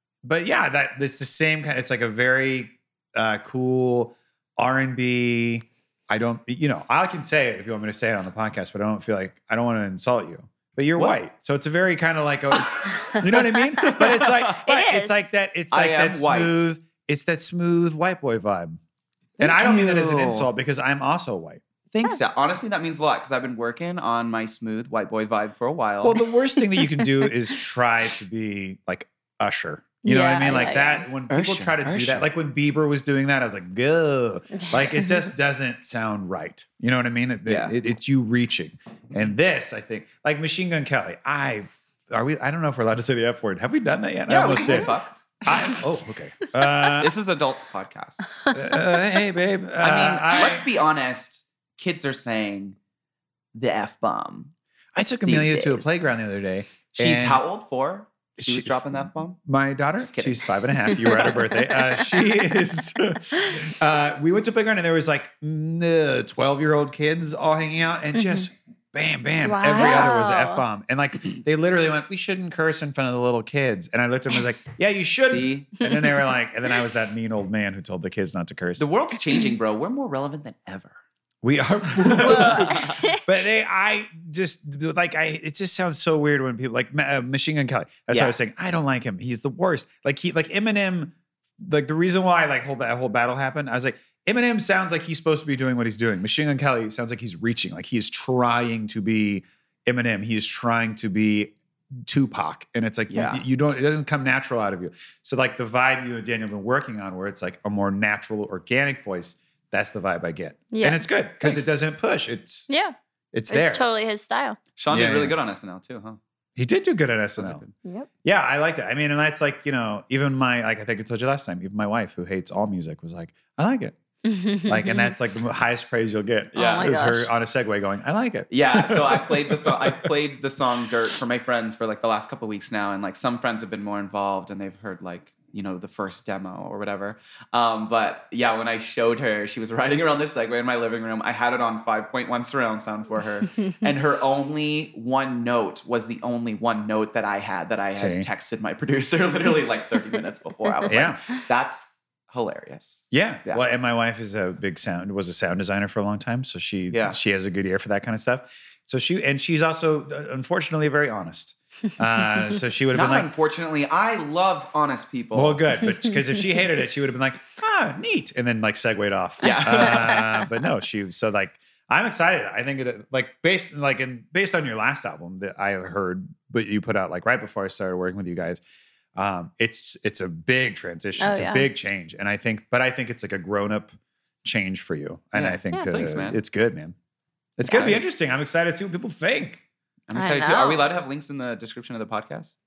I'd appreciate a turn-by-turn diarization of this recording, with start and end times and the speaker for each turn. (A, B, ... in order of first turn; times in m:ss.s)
0:00.2-0:18.8 A
0:12.8-0:15.2 B
0:13.1-0:14.6 C
0:15.7-0:16.6 C
0:19.4-0:20.5 C
0:19.4-0:21.6 A
0:21.9-0:26.2 C
0:26.0-0:47.2 A
0:26.8-0:27.3 B
0:30.0-0:31.1 B
0:31.3-0:32.3 C
0:34.6-0:35.1 B
0:37.5-0:37.7 C
0:44.3-0:45.1 C
0:47.0-0:48.4 C
0:48.5-0:50.7 A
0:49.8-0:52.8 C
0:53.5-0:54.5 C
0:55.0-0:57.4 A
0:55.2-0:56.0 C
0:57.0-0:59.4 C
0:58.4-1:18.9 A
1:00.0-1:00.5 C
1:00.9-1:02.1 B
1:08.1-1:08.5 B
1:09.4-1:10.6 B
1:15.2-1:15.8 C
1:15.8-1:16.3 B
1:18.8-1:21.0 C
1:21.4-1:41.5 A
1:21.9-1:23.1 C
1:22.2-1:23.2 B
1:28.1-1:28.4 C
1:42.1-1:52.7 A
1:43.1-1:43.4 C
1:50.7-1:51.7 B
1:52.7-1:53.0 B
1:53.3-1:54.0 A
1:53.5-1:54.6 B
1:54.8-1:56.2 C
1:54.9-1:55.4 A
1:56.6-1:57.6 A
1:57.4-1:57.7 C
1:58.2-2:04.0 A
2:04.2-2:05.2 B
2:04.7-2:10.2 A
2:06.5-2:07.3 B
2:08.5-2:33.6 C
2:27.9-2:28.3 A
2:30.9-2:31.2 A
2:33.1-2:43.3 A
2:36.9-2:37.2 C
2:42.9-2:45.6 C
2:45.3-2:58.6 A
2:49.4-2:50.2 C
2:49.9-2:50.4 B
2:59.2-3:03.9 A
3:01.2-3:01.7 B
3:04.4-3:07.0 A
3:05.4-3:06.4 C
3:07.6-3:09.6 A
3:07.7-3:08.0 C
3:10.1-3:12.5 C
3:10.1-3:10.8 B